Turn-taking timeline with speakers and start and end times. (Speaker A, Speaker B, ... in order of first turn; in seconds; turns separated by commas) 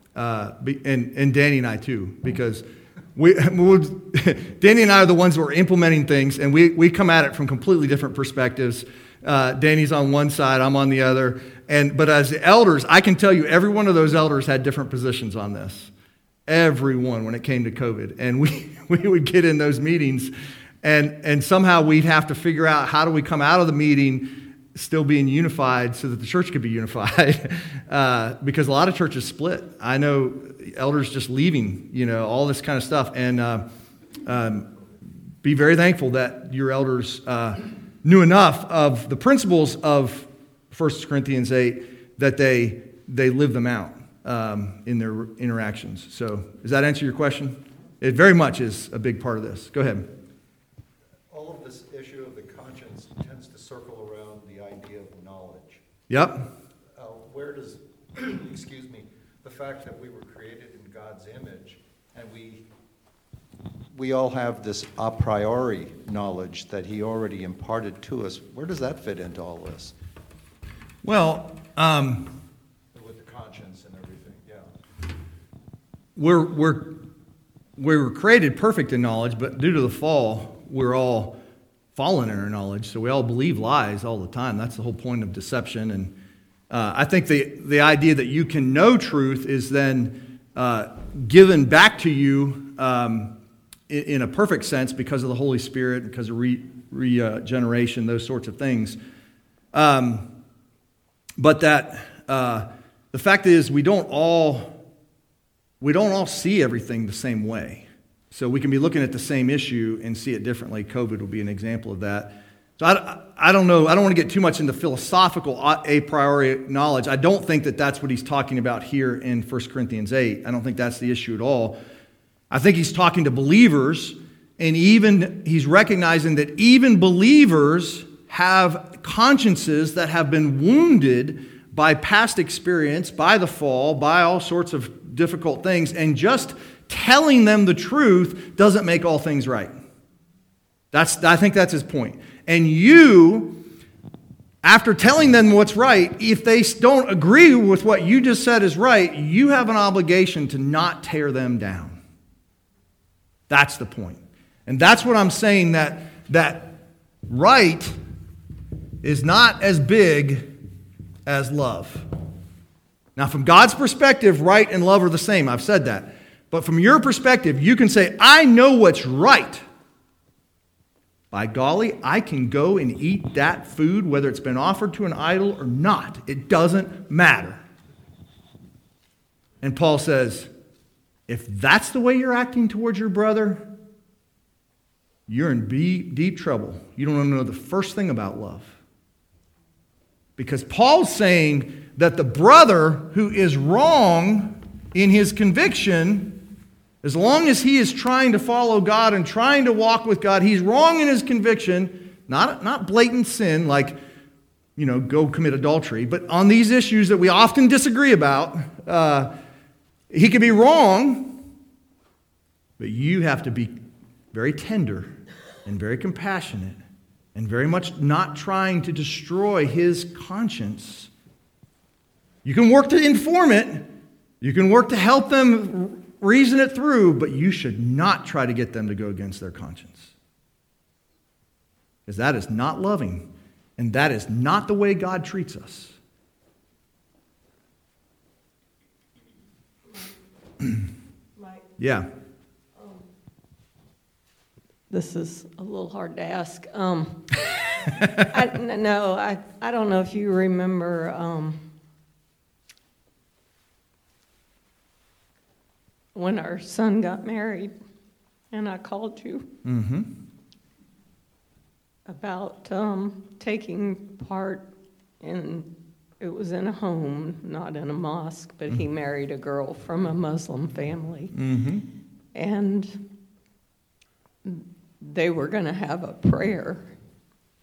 Speaker A: 0.2-2.6, Speaker A: 3.2-15.9, Speaker A: 16.5-33.7, Speaker A: 34.2-34.7, Speaker A: 35.4-50.1, Speaker B: 51.3-55.8, Speaker A: 56.1-56.5, Speaker B: 57.0-62.7, Speaker B: 63.9-69.9, Speaker A: 71.0-72.3, Speaker B: 72.9-74.8, Speaker A: 76.2-77.0, Speaker A: 77.8-81.4, Speaker A: 82.0-86.1, Speaker A: 86.7-93.4, Speaker A: 93.9-99.0, Speaker A: 99.7-100.3, Speaker A: 101.4-104.8, Speaker A: 105.8-121.8, Speaker A: 122.5-139.7, Speaker A: 140.9-143.6, Speaker A: 144.6-152.0, Speaker A: 153.5-156.8, Speaker A: 157.3-158.0, Speaker A: 159.0-160.5, Speaker A: 161.3-162.1, Speaker A: 163.2-169.7, Speaker A: 171.3-177.6, Speaker A: 179.6-180.5, Speaker A: 181.3-183.7, Speaker A: 185.3-188.8, Speaker A: 190.4-196.4, Speaker A: 197.0-204.0, Speaker A: 204.8-209.3, Speaker A: 210.1-211.4, Speaker A: 212.8-213.8, Speaker A: 214.3-215.2, Speaker A: 215.7-216.8, Speaker A: 217.3-221.1, Speaker A: 222.4-223.9, Speaker A: 224.4-230.1, Speaker A: 232.1-236.0, Speaker A: 241.8-242.1, Speaker C: 244.9-251.7, Speaker C: 256.1-257.7, Speaker C: 258.5-259.5, Speaker A: 259.6-260.1, Speaker C: 262.1-264.7, Speaker C: 265.2-271.4, Speaker A: 271.3-271.9, Speaker C: 272.3-273.1, Speaker C: 274.4-276.9